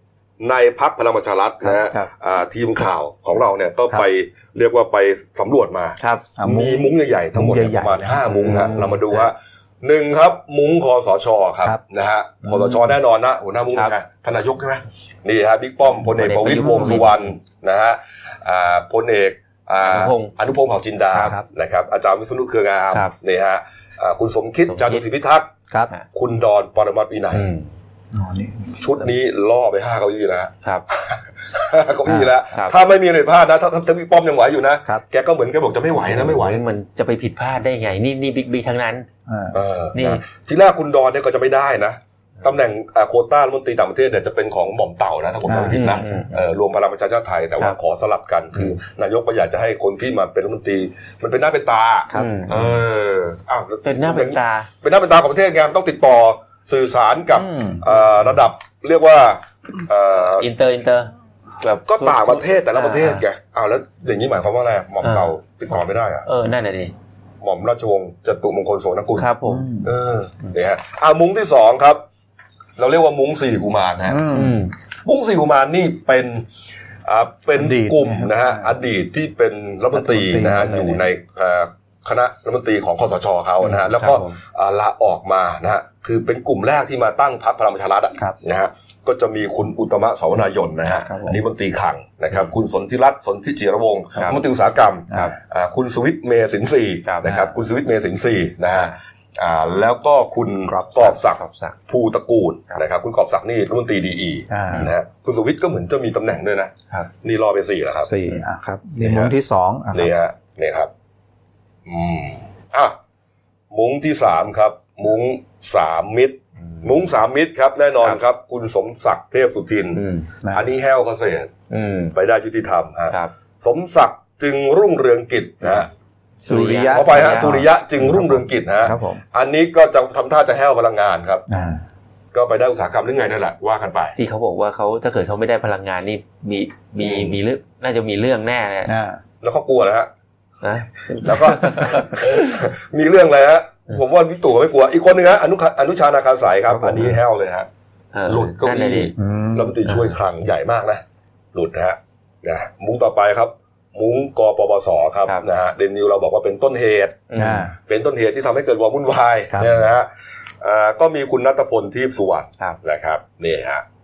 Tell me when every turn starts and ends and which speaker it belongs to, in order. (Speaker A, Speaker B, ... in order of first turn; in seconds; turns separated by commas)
Speaker A: 0.4-25.5, Speaker B: 1.6-2.1, Speaker B: 6.0-6.2, Speaker C: 6.3-8.7, Speaker B: 8.4-9.2, Speaker B: 16.1-17.3, Speaker B: 19.8-20.3, Speaker B: 24.7-25.0, Speaker A: 26.1-27.5, Speaker B: 27.3-27.7, Speaker C: 28.1-28.8, Speaker A: 28.8-36.6, Speaker B: 36.0-39.1, Speaker C: 39.3-39.5, Speaker A: 39.5-60.5, Speaker B: 39.9-40.2, Speaker C: 45.5-46.2, Speaker B: 45.7-46.4, Speaker C: 52.1-52.7, Speaker B: 52.1-52.5, Speaker B: 53.8-54.7, Speaker C: 57.3-58.0, Speaker B: 60.4-63.2, Speaker A: 61.9-66.2, Speaker B: 65.0-65.3, Speaker B: 66.2-66.9, Speaker A: 67.4-69.3, Speaker B: 69.2-69.7, Speaker C: 69.5-69.9, Speaker A: 69.8-72.0, Speaker A: 72.8-74.4, Speaker C: 74.1-74.6, Speaker B: 74.3-74.7, Speaker A: 75.0-76.5, Speaker A: 77.0-108.1, Speaker C: 77.5-78.7, Speaker C: 79.9-81.0, Speaker B: 83.7-84.3, Speaker C: 90.9-91.4, Speaker C: 95.1-95.3, Speaker C: 97.2-97.5, Speaker C: 100.7-101.1, Speaker B: 101.3-101.8, Speaker C: 104.5-104.9, Speaker C: 108.0-110.1, Speaker A: 109.0-109.3, Speaker A: 109.9-110.9, Speaker A: 111.8-113.0, Speaker A: 113.7-121.5, Speaker B: 120.0-120.3, Speaker B: 121.7-122.1, Speaker A: 122.1-125.9, Speaker C: 126.4-129.2, Speaker B: 126.5-127.6, Speaker A: 126.9-131.4, Speaker C: 131.5-131.8, Speaker A: 132.3-134.2, Speaker B: 134.2-138.9, Speaker A: 137.0-137.4, Speaker C: 138.8-139.2, Speaker A: 139.4-140.1, Speaker B: 140.6-142.5, Speaker A: 141.2-147.7, Speaker C: 146.7-147.2, Speaker B: 148.1-149.1, Speaker A: 148.3-151.0, Speaker C: 149.2-149.8, Speaker B: 149.9-150.1, Speaker A: 151.5-157.2, Speaker B: 157.3-157.7, Speaker C: 157.3-157.7, Speaker A: 157.9-160.1, Speaker C: 159.5-159.8, Speaker A: 160.6-163.8